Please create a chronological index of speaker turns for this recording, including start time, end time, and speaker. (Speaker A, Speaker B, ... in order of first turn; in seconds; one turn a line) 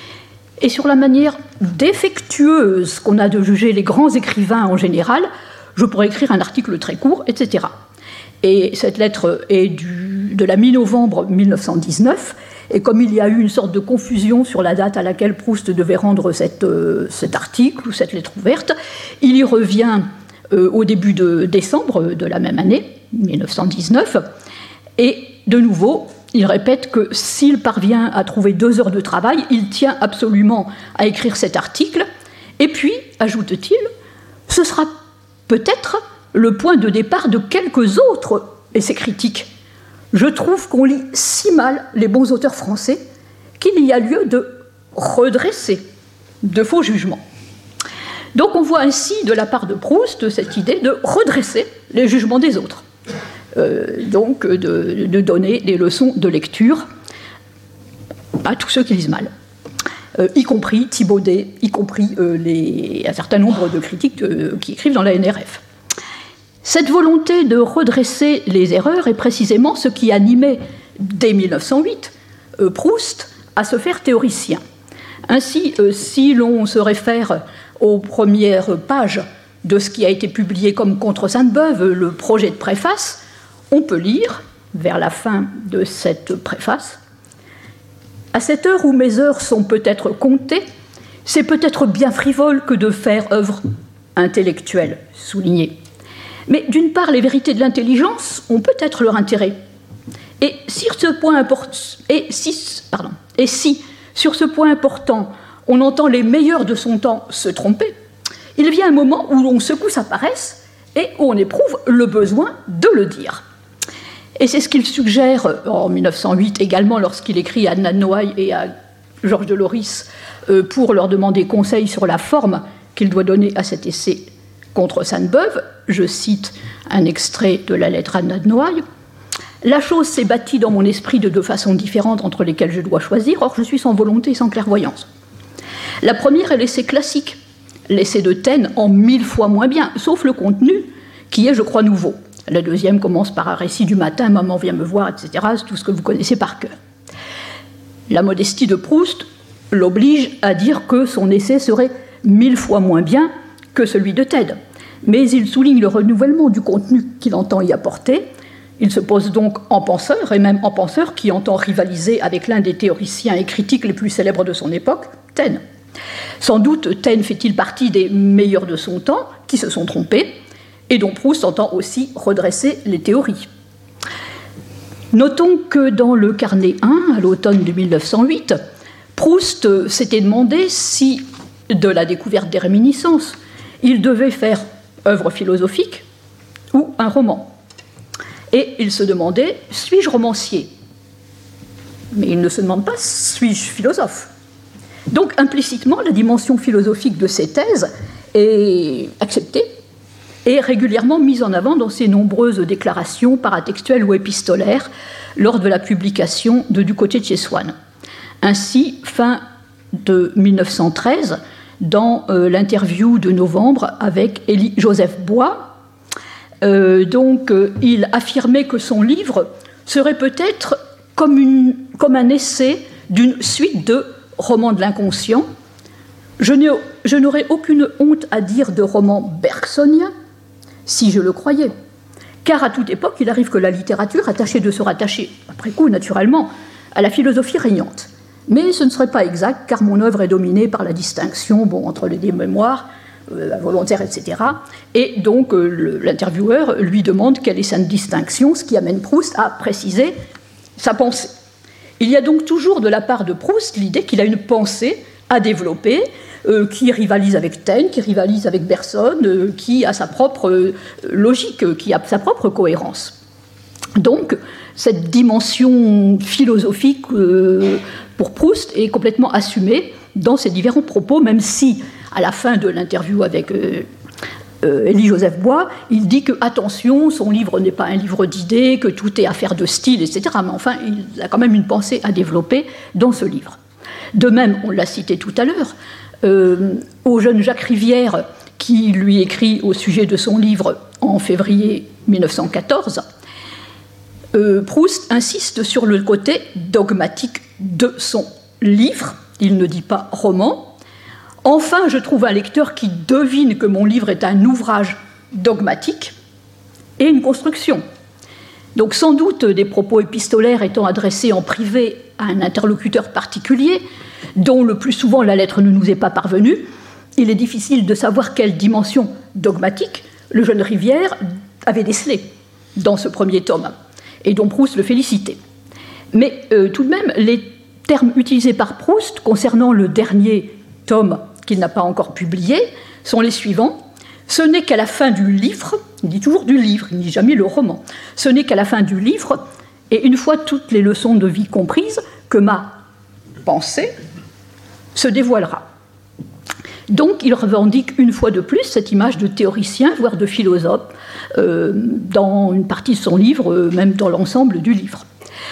Speaker A: 0.6-7.7
Speaker A: 8.4-24.2
Speaker A: 25.0-32.0
Speaker A: 32.6-33.9
Speaker A: 34.5-34.9
Speaker A: 35.5-39.5
Speaker A: 40.1-43.0
Speaker A: 43.6-45.8
Speaker A: 46.4-47.2
Speaker A: 48.4-52.8
Speaker A: 53.5-56.9
Speaker A: 58.4-59.3
Speaker A: 60.2-65.6
Speaker A: 66.6-74.6
Speaker A: 75.3-83.2
Speaker A: 83.7-87.0
Speaker A: 88.3-90.6
Speaker A: 91.2-93.6
Speaker A: 94.2-95.8
Speaker A: 96.5-99.5
Speaker A: 100.4-107.9
Speaker A: 108.5-113.4
Speaker A: 114.4-118.7
Speaker A: 119.2-128.8
Speaker A: 129.6-135.1
Speaker A: 136.0-146.7
Speaker A: 148.1-158.2
Speaker A: 158.8-165.6
Speaker A: 166.4-170.4
Speaker A: 170.9-173.5
Speaker A: 175.1-178.6
Speaker A: 179.2-186.0
Speaker A: 186.7-187.5
Speaker A: 188.5-190.7
Speaker A: 192.1-194.3
Speaker A: 195.1-199.7
Speaker A: 200.4-207.7
Speaker A: 208.4-209.4
Speaker A: 210.0-215.7
Speaker A: 216.6-225.4
Speaker A: 226.4-230.1
Speaker A: 230.9-231.7
Speaker A: 232.4-250.1
Speaker A: 250.8-251.3
Speaker A: 252.0-263.1
Speaker A: 264.0-273.9
Speaker A: 274.6-283.6
Speaker A: 284.1-293.0
Speaker A: 294.3-300.7
Speaker A: 301.4-306.1
Speaker A: 307.0-307.8
Speaker A: 308.8-313.8
Speaker A: 314.4-323.7
Speaker A: 324.2-325.4
Speaker A: 326.1-342.8
Speaker A: 343.4-343.9
Speaker A: 344.9-345.6
Speaker A: 346.9-355.1